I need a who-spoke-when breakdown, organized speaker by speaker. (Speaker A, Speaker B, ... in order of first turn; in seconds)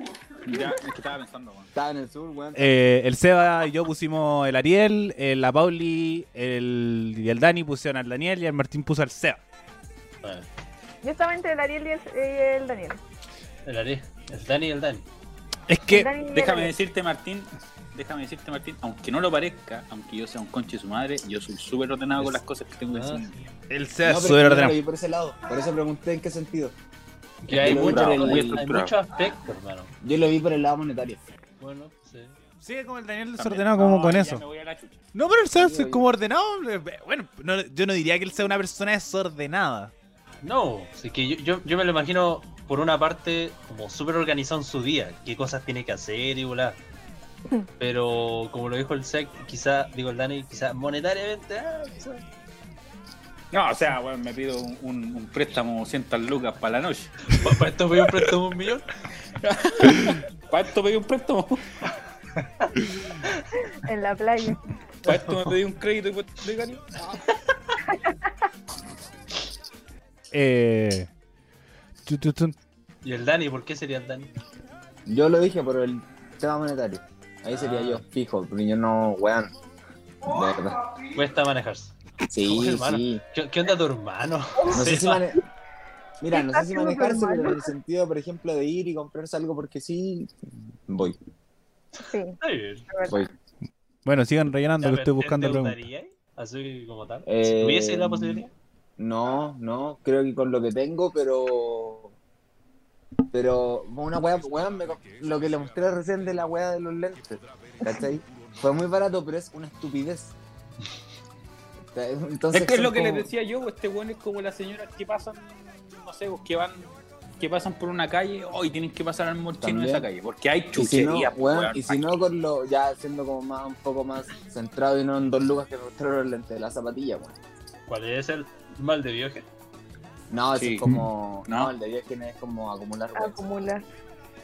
Speaker A: 0.4-1.7, 16.3-23.4, 27.5-28.9, 33.4-35.0, 53.5-58.3, 59.4-61.7, 65.0-67.3, 112.5-122.2, 130.6-131.7
Speaker B: 1.7-2.8, 24.0-26.8, 27.5-28.6, 30.0-31.2, 35.5-36.0, 75.1-79.5, 80.2-80.8, 82.3-83.2, 84.7-85.4, 86.2-91.2, 93.1-93.3, 97.3-98.4, 99.0-102.1, 103.3-110.3, 111.9-113.3, 119.6-120.1, 120.7-127.4, 130.3-133.4
Speaker C: 2.5-9.4, 15.7-16.1, 23.7-24.8, 32.6-34.4, 35.1-39.9, 70.3-71.1, 72.1-72.6, 94.1-95.8
Speaker D: 11.0-13.0, 15.9-16.7, 63.8-64.6, 67.9-68.2, 84.6-84.9, 86.3-87.7, 92.1-92.4, 92.9-93.2, 133.2-133.8
Speaker E: 13.7-15.1, 22.9-23.4, 27.4-29.9, 31.6-32.3, 40.4-46.8, 47.8-52.2, 57.3-58.9, 62.6-63.5, 65.0-65.6, 73.0-74.3, 77.5-78.0, 81.1-85.3, 92.4-92.9, 94.8-98.5, 127.9-129.5